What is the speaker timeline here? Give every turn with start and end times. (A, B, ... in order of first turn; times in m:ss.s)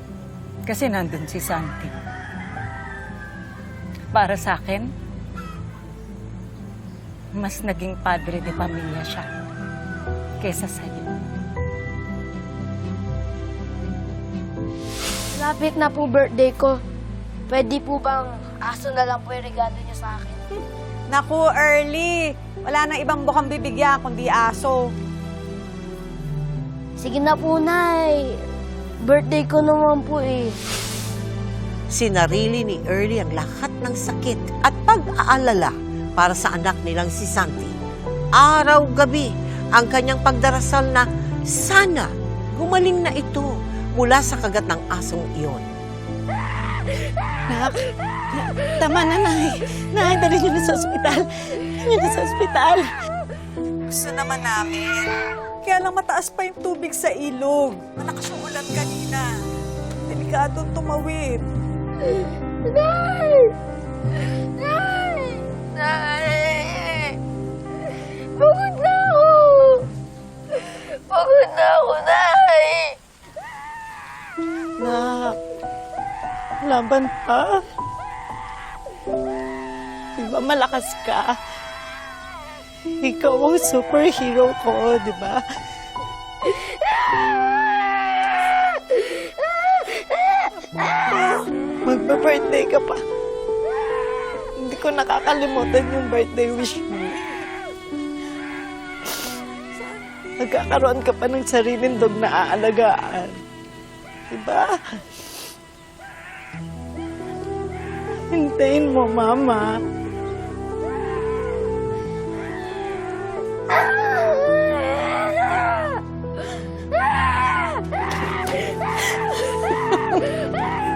0:00.6-0:01.9 A
0:04.1-0:04.9 A
0:07.3-0:09.3 A
0:10.4-0:11.1 A
0:15.3-0:16.8 B
0:17.5-0:20.4 B
0:21.1-0:24.9 C
0:27.0-0:28.4 B
0:29.0-0:30.6 B
0:31.9-0:37.8 D
0:38.4-0:45.7 D
0:47.5-0:52.9 E
0:53.9-0:59.3 C
1:00.1-1:01.4 C
1:02.0-1:03.5 B
1:04.2-1:07.2 B
1:07.8-1:09.9 B
1:10.5-1:13.0 B
1:14.8-1:15.4 E
1:16.6-1:17.6 E
1:20.2-1:21.4 E
1:23.0-1:25.4 E
1:31.0-1:33.0 E
1:34.6-1:37.4 E
1:40.4-1:43.4 E
1:44.3-1:45.0 E
1:48.3-1:49.7 E
1:59.5-2:00.2 E